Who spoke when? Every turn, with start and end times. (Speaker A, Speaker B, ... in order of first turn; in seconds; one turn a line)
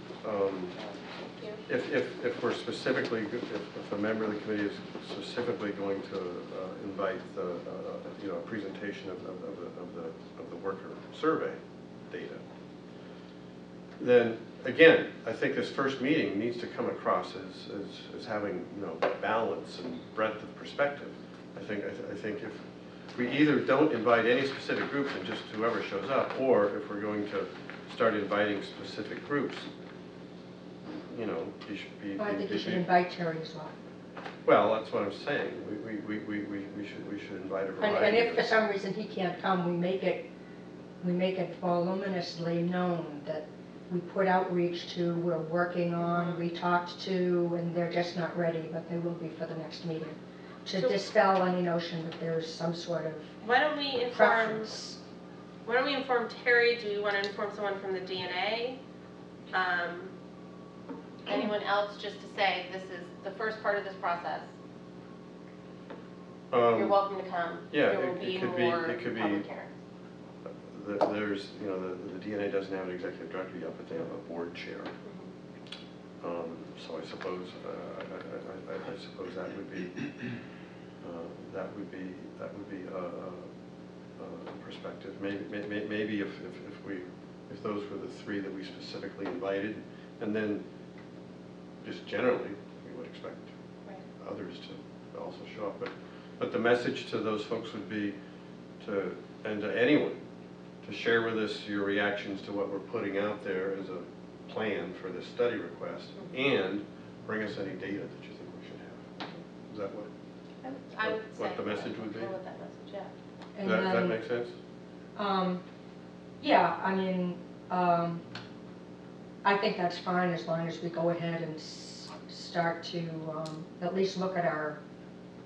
Speaker A: 0.2-0.8
Speaker B: 0.8-1.6
Speaker A: 1.7-12.4
Speaker A: 14.0-29.7
Speaker A: 30.9-32.9
Speaker C: 32.2-33.8
Speaker A: 34.5-38.5
Speaker C: 37.8-40.3
Speaker C: 41.0-53.3
Speaker B: 46.0-46.4
Speaker B: 53.4-54.8
Speaker C: 54.1-55.0
Speaker B: 55.6-58.8
Speaker B: 59.5-60.1
Speaker B: 61.3-64.5
Speaker A: 66.5-67.0
Speaker B: 66.7-69.8
Speaker A: 67.7-69.4
Speaker A: 70.5-74.9
Speaker B: 75.0-75.3
Speaker A: 76.2-80.2
Speaker A: 81.0-83.5
Speaker A: 84.2-90.6
Speaker A: 91.8-93.5
Speaker A: 94.2-98.2
Speaker A: 98.8-100.2
Speaker A: 100.8-110.1
Speaker B: 110.6-113.1
Speaker A: 111.0-112.3
Speaker C: 113.6-114.2
Speaker A: 113.6-114.5
Speaker C: 115.2-115.6
Speaker C: 116.4-118.2
Speaker C: 119.4-124.8